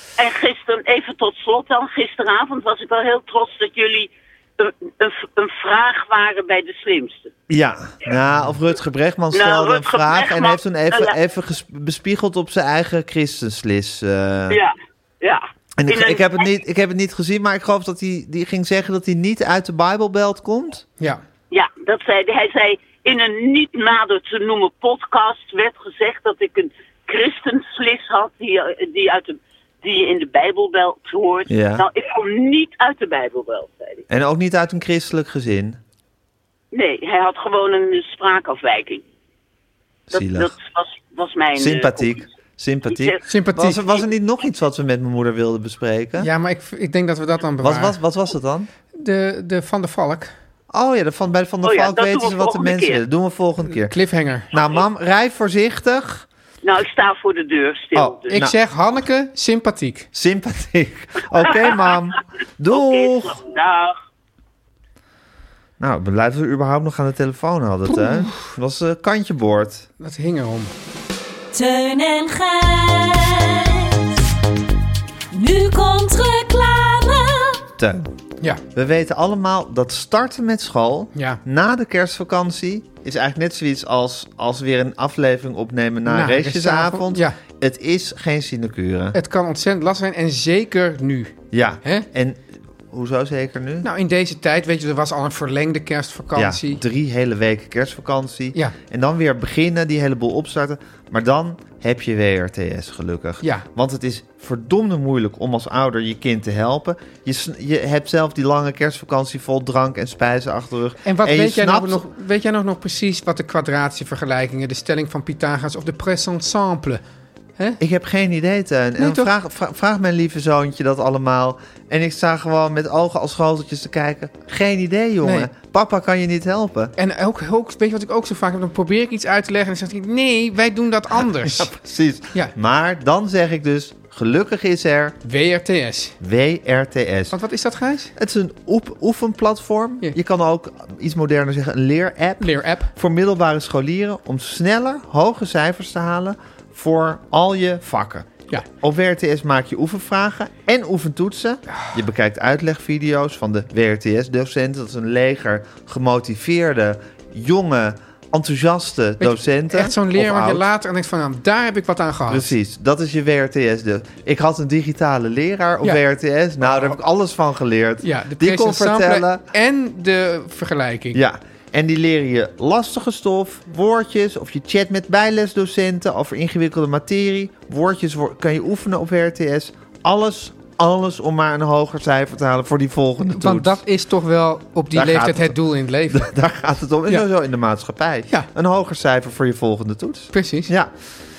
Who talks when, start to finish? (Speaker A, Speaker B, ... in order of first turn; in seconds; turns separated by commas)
Speaker A: 0.2-7.3, Speaker B: 7.5-14.6, Speaker A: 9.3-11.2, Speaker A: 14.5-16.5, Speaker B: 15.8-20.8, Speaker A: 21.5-34.0, Speaker B: 31.5-31.9, Speaker B: 34.1-35.8, Speaker A: 36.7-39.0, Speaker B: 40.1-40.5, Speaker A: 40.1-42.2, Speaker B: 41.5-46.3, Speaker A: 42.9-43.2, Speaker C: 43.3-43.8, Speaker C: 46.2-48.0, Speaker B: 47.6-48.7, Speaker C: 49.0-50.3, Speaker B: 50.7-54.0, Speaker A: 51.6-53.0, Speaker C: 53.9-54.5, Speaker B: 54.5-56.2, Speaker A: 54.5-54.8, Speaker A: 56.6-58.5, Speaker B: 57.9-58.5, Speaker C: 58.3-60.1, Speaker B: 60.1-63.4, Speaker A: 61.4-62.0, Speaker A: 62.7-64.0, Speaker B: 65.8-69.9, Speaker C: 67.9-68.5, Speaker C: 70.0-70.7, Speaker D: 71.5-74.2, Speaker D: 75.3-77.6, Speaker B: 77.8-78.1, Speaker B: 78.7-89.2, Speaker C: 81.1-81.4, Speaker C: 86.0-87.4, Speaker C: 89.1-92.1, Speaker B: 91.5-93.9, Speaker C: 93.8-96.8, Speaker B: 96.3-112.0, Speaker C: 111.0-117.0, Speaker B: 117.8-126.9, Speaker C: 119.0-119.3, Speaker C: 125.2-125.5, Speaker C: 127.0-131.7, Speaker B: 131.2-135.2, Speaker C: 135.2-136.1, Speaker B: 136.2-137.3, Speaker C: 137.3-138.1, Speaker B: 138.2-160.6, Speaker C: 142.4-142.9, Speaker C: 159.2-162.5, Speaker B: 162.3-169.4, Speaker C: 166.6-167.0, Speaker C: 168.0-171.2, Speaker B: 171.1-183.8, Speaker C: 183.2-186.3, Speaker B: 184.9-185.6, Speaker B: 186.1-190.9, Speaker C: 190.3-190.7